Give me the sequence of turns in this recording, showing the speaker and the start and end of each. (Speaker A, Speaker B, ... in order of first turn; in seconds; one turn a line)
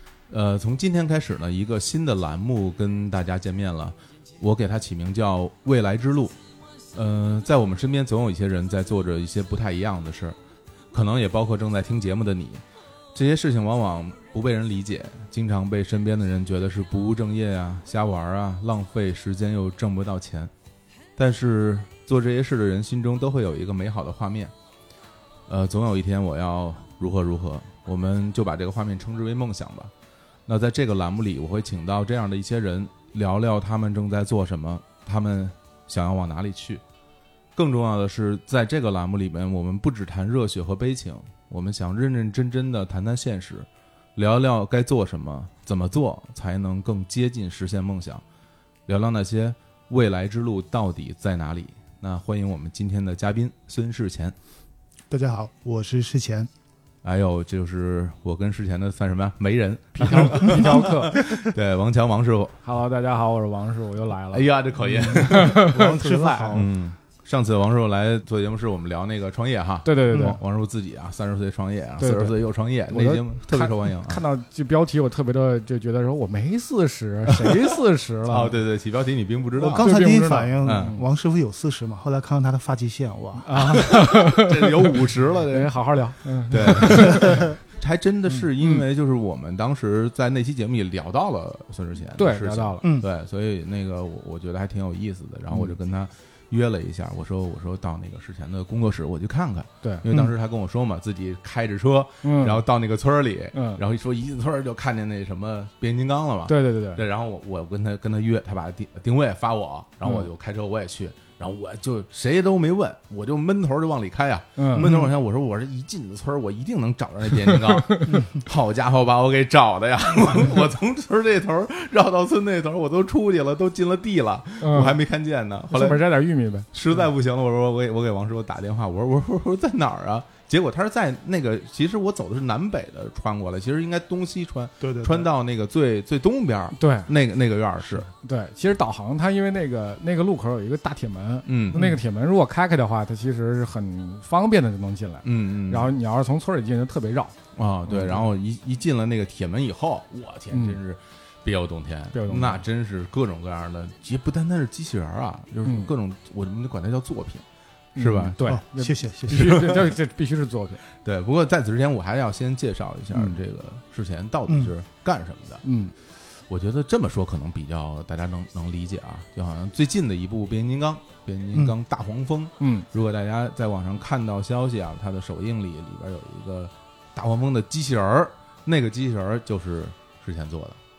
Speaker A: 0.3-6.4
Speaker A: 6.9-10.4
Speaker A: 10.9-20.5
Speaker A: 21.2-24.5
Speaker A: 25.5-29.9
Speaker A: 30.5-36.8
Speaker A: 37.6-48.2
Speaker A: 48.9-54.4
Speaker B: 55.1-56.5
Speaker A: 57.0-62.6
Speaker C: 59.9-61.2
Speaker B: 60.2-60.6
Speaker B: 61.2-61.5
Speaker C: 62.6-66.0
Speaker A: 64.3-74.2
Speaker B: 64.9-66.7
Speaker C: 69.8-70.4
Speaker B: 70.1-70.4
Speaker C: 72.0-78.6
Speaker A: 77.3-77.7
Speaker A: 78.3-79.9
Speaker B: 79.6-83.6
Speaker C: 79.8-81.0
Speaker A: 80.6-80.9
Speaker C: 83.4-85.0
Speaker A: 83.6-86.0
Speaker C: 85.5-87.5
Speaker A: 86.5-126.1
Speaker B: 87.2-87.4
Speaker C: 92.2-92.9
Speaker B: 92.8-93.1
Speaker C: 102.2-102.6
Speaker C: 103.5-103.8
Speaker C: 106.5-107.0
Speaker C: 114.6-114.9
Speaker B: 114.7-115.1
Speaker C: 117.6-118.2
Speaker C: 124.6-125.0
Speaker C: 125.7-126.7
Speaker A: 126.7-138.1
Speaker B: 134.8-135.3
Speaker C: 136.8-137.1
Speaker C: 138.1-147.3
Speaker A: 141.5-141.9
Speaker A: 145.2-145.9
Speaker A: 147.5-157.4
Speaker C: 147.9-148.2
Speaker C: 150.5-150.8
Speaker C: 152.1-152.6
Speaker C: 155.7-155.9
Speaker C: 157.9-160.8
Speaker A: 158.0-158.4
Speaker B: 158.4-159.8
Speaker A: 159.3-159.9
Speaker A: 160.9-165.6
Speaker C: 165.6-165.9
Speaker A: 166.2-180.8
Speaker C: 172.6-172.9